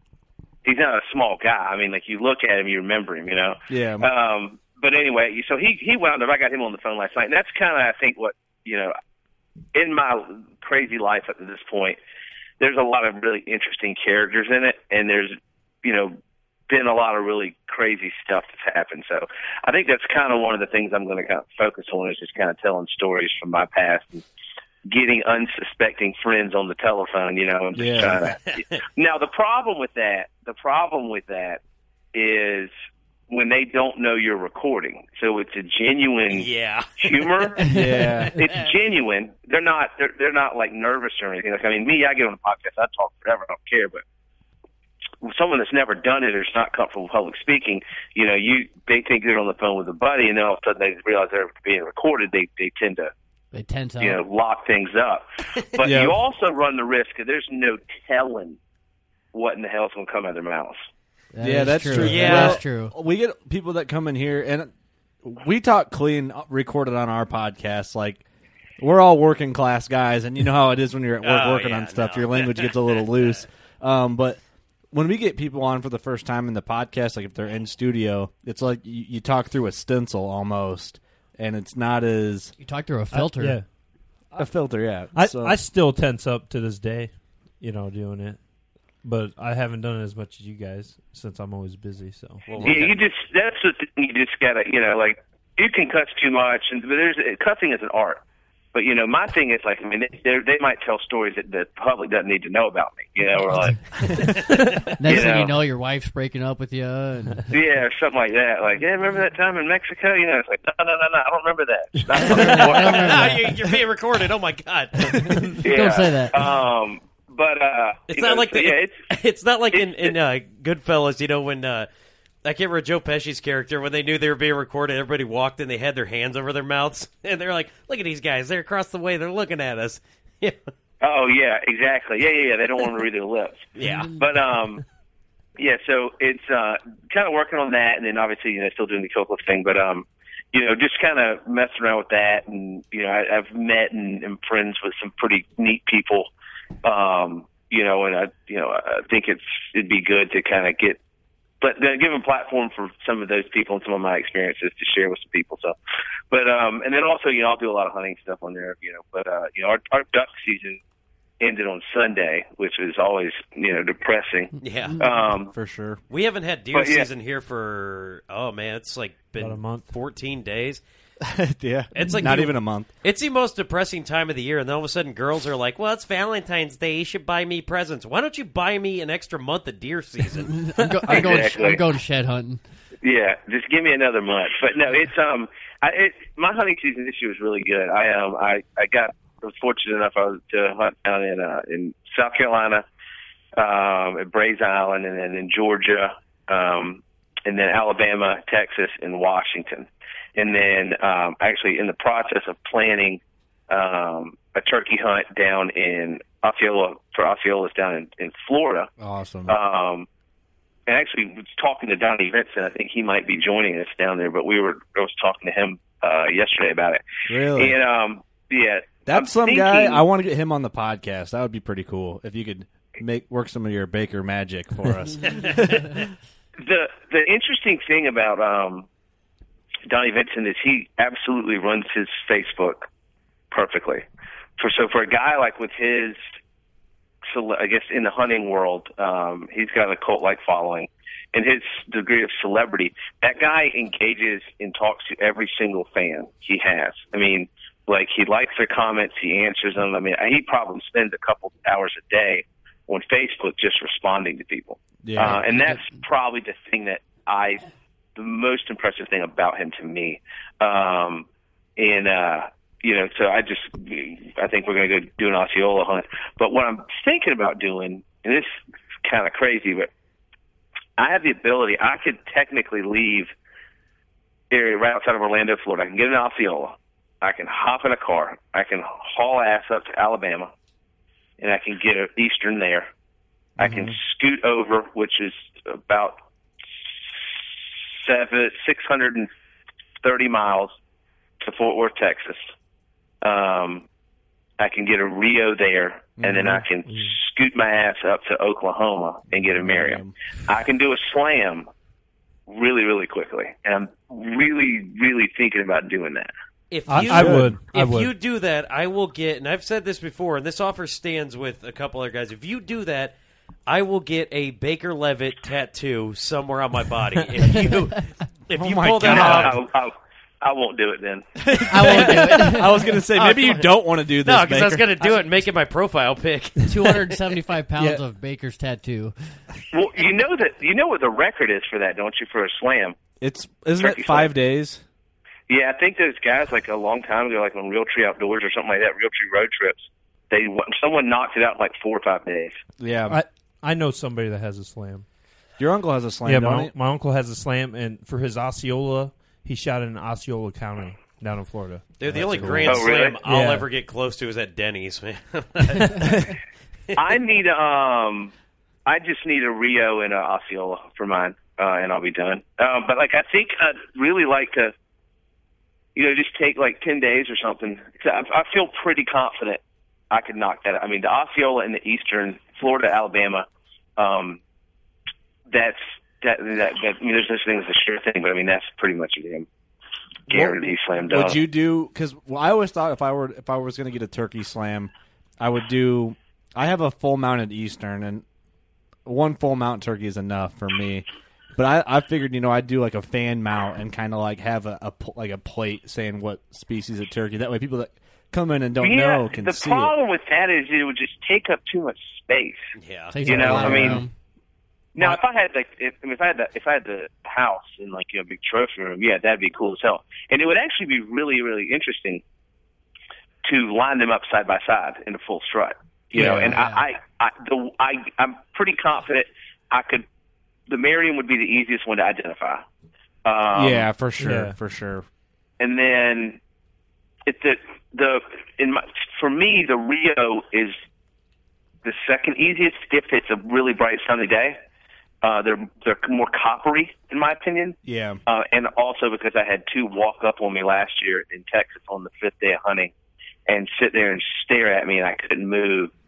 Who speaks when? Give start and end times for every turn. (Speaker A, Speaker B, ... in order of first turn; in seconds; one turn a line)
Speaker A: 0.7-8.9
Speaker B: 3.7-4.1
Speaker A: 9.8-12.0
Speaker A: 12.6-16.2
Speaker A: 16.7-24.2
Speaker A: 24.9-31.6
Speaker B: 27.8-28.2
Speaker A: 32.1-32.7
Speaker A: 33.3-36.5
Speaker C: 36.3-37.6
Speaker A: 37.0-37.8
Speaker D: 37.7-38.2
Speaker B: 37.7-38.4
Speaker A: 38.4-44.0
Speaker A: 45.2-53.1
Speaker D: 53.5-54.2
Speaker A: 54.0-58.6
Speaker B: 55.8-56.2
Speaker A: 59.3-60.8
Speaker D: 61.3-62.9
Speaker B: 61.4-64.7
Speaker C: 62.0-62.6
Speaker B: 65.2-68.2
Speaker B: 68.8-74.4
Speaker C: 71.2-73.5
Speaker B: 74.9-82.5
Speaker D: 82.6-83.6
Speaker E: 83.1-83.7
Speaker B: 84.4-85.6
Speaker E: 85.1-88.4
Speaker E: 89.0-92.8
Speaker C: 92.5-92.9
Speaker A: 92.6-98.2
Speaker A: 98.7-103.9
Speaker D: 105.0-107.5
Speaker A: 105.0-105.6
Speaker A: 107.5-113.3
Speaker D: 112.3-113.5
Speaker C: 112.3-115.6
Speaker A: 115.6-119.0
Speaker D: 115.6-116.4
Speaker C: 118.1-121.9
Speaker A: 119.7-120.1
Speaker C: 122.4-130.7
Speaker A: 131.0-134.8
Speaker C: 133.8-134.3
Speaker A: 135.6-146.3
Speaker A: 146.8-151.0
Speaker A: 151.6-155.8
Speaker A: 156.3-160.8
Speaker A: 161.4-165.5
Speaker C: 164.6-165.0
Speaker B: 165.5-166.0
Speaker C: 166.1-170.8
Speaker A: 166.7-167.1
Speaker E: 169.4-169.9
Speaker B: 171.2-172.9
Speaker C: 171.9-181.2
Speaker D: 180.6-182.6
Speaker A: 181.1-181.8
Speaker A: 183.0-192.8
Speaker A: 193.6-208.9
Speaker B: 209.0-209.6
Speaker A: 209.5-210.1
Speaker A: 210.9-217.0
Speaker B: 217.3-217.8
Speaker A: 217.6-220.0
Speaker B: 219.1-225.9
Speaker A: 226.6-228.9
Speaker A: 229.9-232.9
Speaker A: 233.5-234.0
Speaker A: 234.6-236.2
Speaker A: 237.3-257.6
Speaker B: 255.0-255.4
Speaker A: 258.2-261.3
Speaker A: 261.8-269.9
Speaker A: 271.0-273.3
Speaker A: 274.5-280.5
Speaker A: 281.4-282.9
Speaker B: 283.6-284.0
Speaker A: 283.6-286.2
Speaker A: 287.2-287.4
Speaker A: 288.0-289.3
Speaker A: 290.0-290.8
Speaker A: 291.4-292.4
Speaker A: 293.2-293.9
Speaker A: 294.6-301.7
Speaker B: 296.2-296.6
Speaker E: 296.9-297.1
Speaker B: 299.4-300.1
Speaker A: 302.5-306.3
Speaker C: 306.7-313.1
Speaker E: 306.9-308.1
Speaker B: 307.1-307.6
Speaker C: 313.7-319.6
Speaker B: 318.5-319.6
Speaker A: 319.1-321.3
Speaker B: 321.4-324.9
Speaker D: 321.7-322.7
Speaker C: 323.1-327.2
Speaker D: 326.7-329.1
Speaker A: 329.7-333.0
Speaker B: 333.2-334.9
Speaker A: 333.8-334.3
Speaker A: 335.5-342.6
Speaker B: 342.8-343.2
Speaker E: 343.1-345.1
Speaker B: 345.6-346.7
Speaker E: 346.2-352.7
Speaker C: 352.0-356.2
Speaker B: 352.1-352.9
Speaker A: 352.7-353.2
Speaker E: 353.2-353.7
Speaker E: 355.8-356.3
Speaker A: 356.9-358.3
Speaker A: 358.9-364.7
Speaker A: 365.9-374.4
Speaker A: 375.5-379.5
Speaker A: 380.3-381.4
Speaker B: 380.3-388.2
Speaker B: 389.1-399.9
Speaker A: 398.8-402.7
Speaker C: 402.8-403.4
Speaker D: 403.1-404.1
Speaker A: 403.2-404.0
Speaker E: 403.4-404.0
Speaker B: 403.5-404.0
Speaker A: 404.9-412.2
Speaker A: 413.4-420.1
Speaker E: 416.1-416.6
Speaker D: 416.3-416.9
Speaker A: 420.7-422.6
Speaker A: 423.2-423.9
Speaker B: 423.5-425.1
Speaker E: 424.2-424.5
Speaker A: 425.6-426.4
Speaker A: 427.3-430.8
Speaker A: 431.8-434.6
Speaker A: 435.2-442.9
Speaker B: 437.9-438.2
Speaker A: 443.5-445.9